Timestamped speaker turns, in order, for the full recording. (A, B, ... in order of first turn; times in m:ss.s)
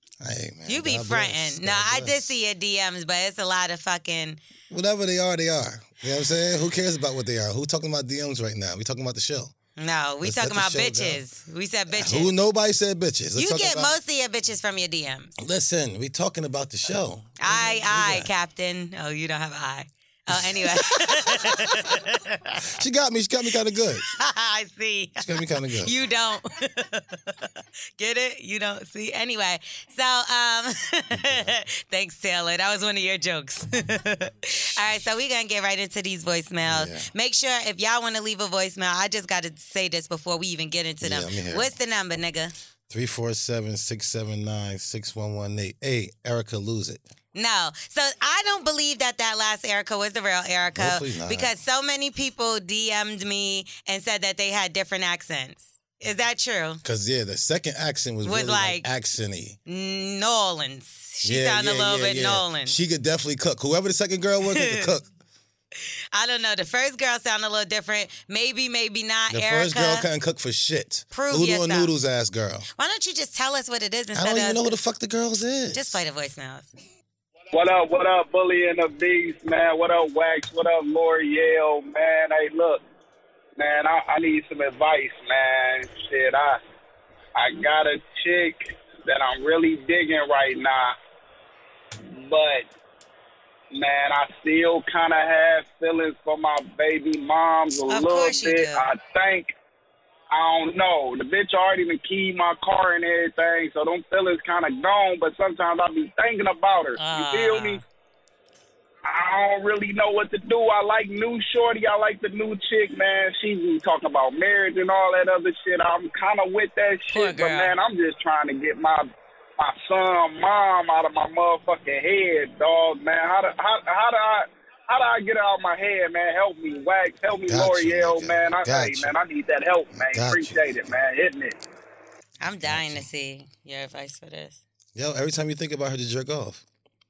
0:00.2-0:02.3 A
0:00.7-0:04.4 B
0:04.7-0:09.5 A
0:09.8-0:12.3 B
0:10.2-0:11.2 A
0:11.9-0:13.9 A
0:13.3-0:15.3 B
0:15.4-0:18.3 A
0:17.4-0:22.7 B
0:20.3-0:22.0 A
0:22.6-0:24.1 A
0:24.1-0:42.5 B
0:25.2-0:25.9 A
0:31.1-0:31.5 A
0:36.6-0:37.1 A
0:41.0-0:41.7 A
0:42.9-0:47.0 A
0:47.3-0:56.8 B
0:50.7-0:51.5 A
0:56.8-0:59.6 A
0:58.2-0:58.9 B
0:59.6-1:02.8 B
1:01.2-1:05.0 A
1:04.5-1:04.9 B
1:06.1-1:10.1 B
1:09.3-1:12.7 A
1:11.1-1:11.9 B
1:12.8-1:14.6 B
1:14.1-1:16.0 A
1:15.7-1:16.7 B
1:17.5-1:22.8 C
1:23.6-1:26.6 C
1:27.3-1:30.9 C
1:32.1-1:32.7 C
1:33.7-1:39.5 C
1:37.9-1:38.9 B
1:40.3-1:47.8 C
1:47.0-1:47.8 B
1:49.0-2:11.6 C
1:57.1-1:57.7 B
2:07.3-2:09.1 A
2:09.9-2:10.8 A
2:12.4-2:14.6 B
2:12.6-2:13.1 A
2:14.9-2:16.6 A